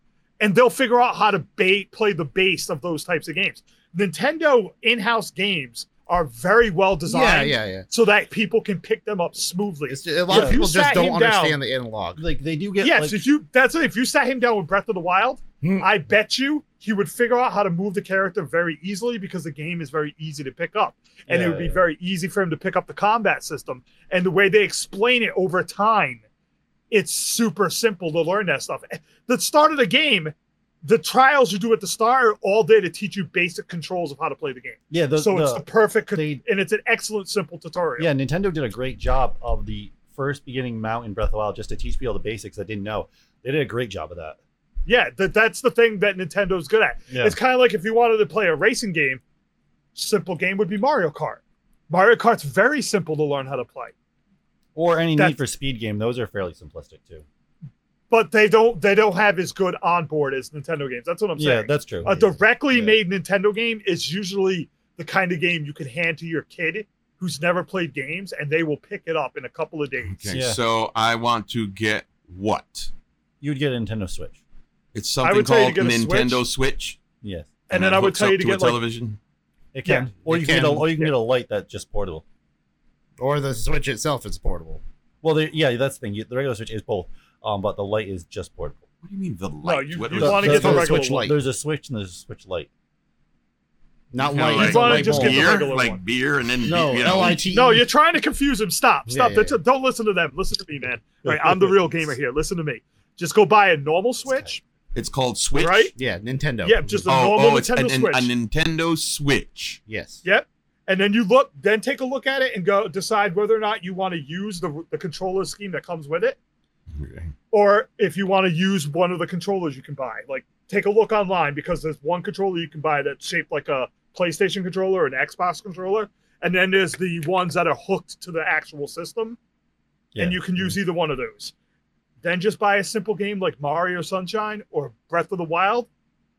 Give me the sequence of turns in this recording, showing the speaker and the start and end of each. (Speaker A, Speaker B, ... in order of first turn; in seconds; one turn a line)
Speaker A: 0.4-11.6
Speaker B: 7.1-7.9
Speaker B: 9.9-12.2
Speaker C: 10.3-10.6
Speaker C: 12.2-13.2
Speaker A: 12.8-26.2
Speaker B: 15.6-15.9
Speaker C: 21.3-21.8
Speaker A: 26.9-38.1
Speaker C: 34.9-36.4
Speaker C: 38.0-44.4
Speaker A: 44.9-49.2
Speaker C: 47.1-47.4
Speaker A: 50.0-53.9
Speaker C: 54.8-57.2
Speaker A: 58.1-70.3
Speaker C: 61.4-62.9
Speaker D: 70.1-72.9
Speaker C: 70.3-70.6
Speaker C: 73.4-74.4
Speaker D: 74.9-77.0
Speaker A: 75.2-76.4
Speaker C: 77.2-77.5
Speaker A: 77.7-78.8
Speaker D: 77.7-79.2
Speaker C: 79.7-82.2
Speaker A: 79.8-80.1
Speaker B: 80.3-81.0
Speaker B: 83.2-84.8
Speaker C: 85.2-88.8
Speaker D: 89.0-90.6
Speaker A: 89.6-91.3
Speaker C: 90.2-92.7
Speaker B: 90.3-91.4
Speaker B: 94.1-95.5
Speaker D: 94.2-97.5
Speaker A: 94.4-96.0
Speaker C: 94.6-95.5
Speaker B: 96.7-97.9
Speaker A: 97.5-104.6
Speaker B: 99.1-99.6
Speaker C: 101.3-101.8
Speaker C: 104.3-104.5
Speaker D: 104.9-105.9
Speaker A: 105.6-105.9
Speaker B: 106.0-107.0
Speaker A: 106.6-108.3
Speaker D: 107.1-109.8
Speaker B: 109.9-110.2
Speaker A: 110.2-116.4
Speaker D: 116.9-117.3
Speaker A: 117.5-129.4
Speaker C: 130.1-130.8
Speaker A: 130.2-131.5
Speaker A: 132.2-135.9